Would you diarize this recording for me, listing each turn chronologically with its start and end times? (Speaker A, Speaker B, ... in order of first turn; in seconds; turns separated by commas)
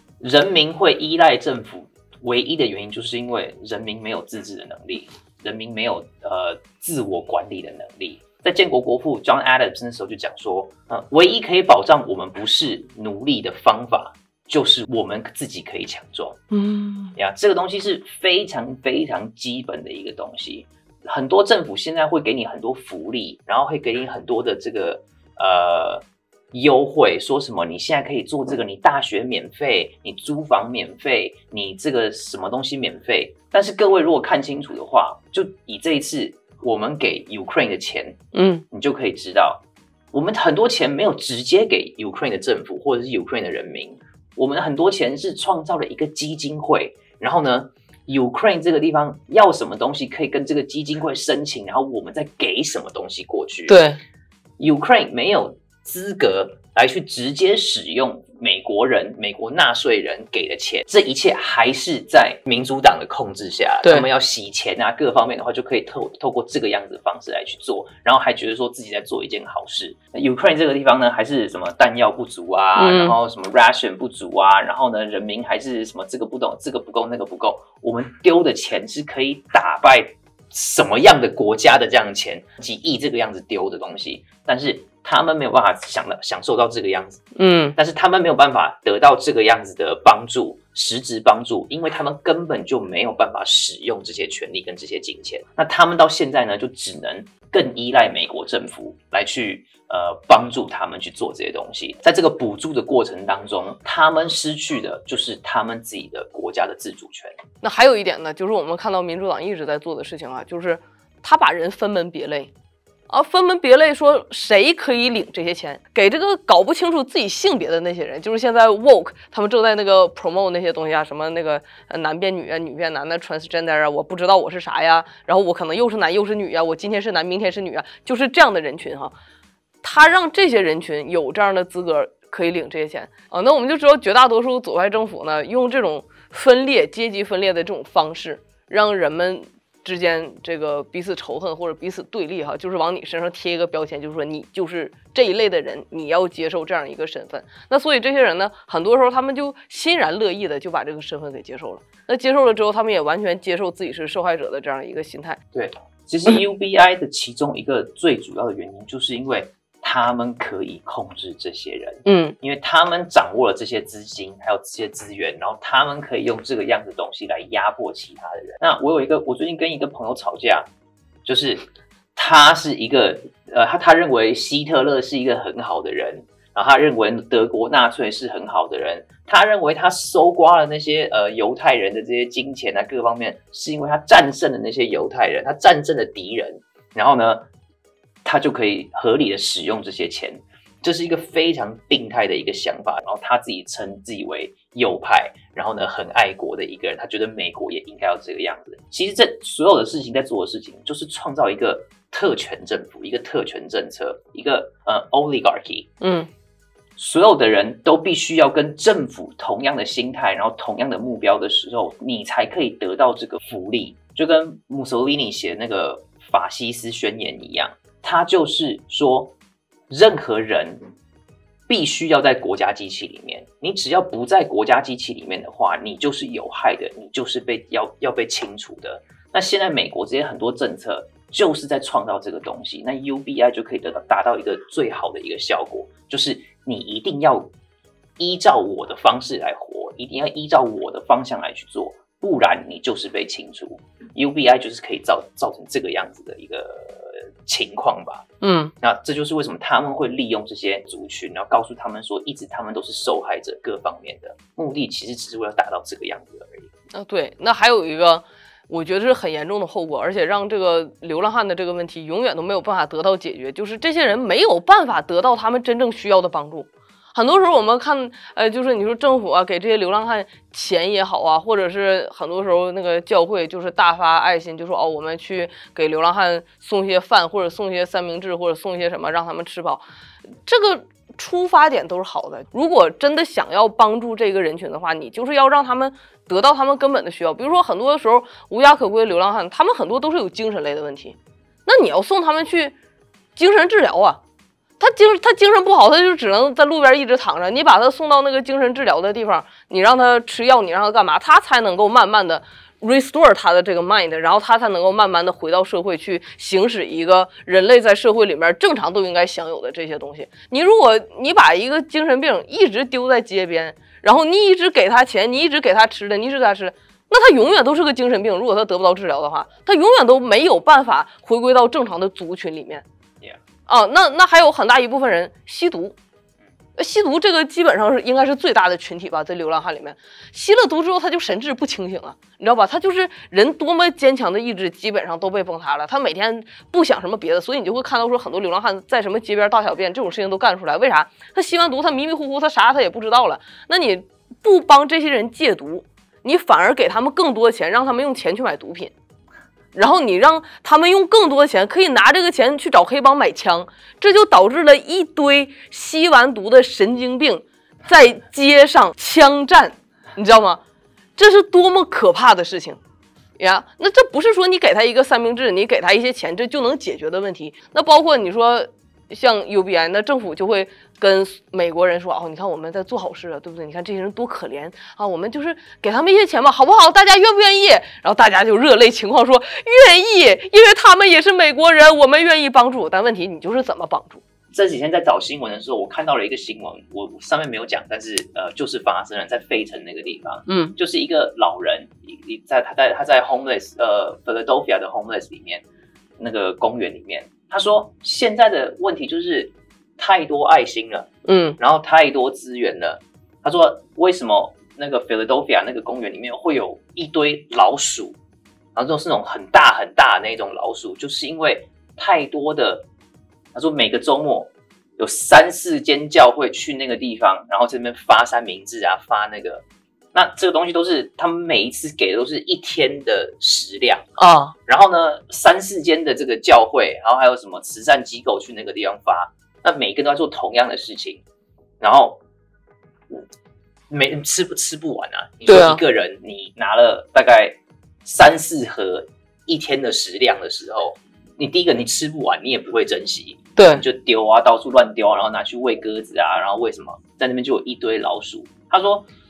Speaker A: 0.2-16.4, Speaker B: 16.5-17.1, Speaker A: 17.1-38.2, Speaker B: 38.3-38.6, Speaker A: 38.7-53.8, Speaker B: 53.7-54.0, Speaker A: 54.6-87.2, Speaker B: 72.8-73.1, Speaker B: 87.3-87.8, Speaker A: 87.7-107.3, Speaker B: 107.6-112.5, Speaker B: 113.1-129.1, Speaker B: 129.8-155.4, Speaker A: 155.5-170.7, Speaker B: 162.1-162.3, Speaker A: 171.2-187.4, Speaker A: 188.2-205.9, Speaker B: 206.0-206.3, Speaker A: 207.0-219.3, Speaker A: 219.9-220.8, Speaker A: 221.7-237.5, Speaker A: 238.2-248.2, Speaker B: 248.4-248.7, Speaker A: 248.8-256.7, Speaker B: 256.9-279.8, Speaker B: 280.4-292.7, Speaker B: 293.4-294.2, Speaker B: 294.8-322.8, Speaker B: 323.7-325.9, Speaker B: 326.8-348.9, Speaker B: 349.7-360.6, Speaker B: 361.2-362.8, Speaker B: 363.4-384.2, Speaker A: 384.5-395.6, Speaker B: 390.5-390.7, Speaker A: 396.2-401.1, Speaker B: 401.2-401.6, Speaker A: 401.6-408.2, Speaker A: 408.7-412.9, Speaker A: 413.5-419.6, Speaker A: 420.1-424.1, Speaker B: 424.2-424.5, Speaker A: 424.7-431.2, Speaker A: 431.8-432.2, Speaker A: 433.9-449.1, Speaker B: 435.4-435.8, Speaker B: 443.6-443.8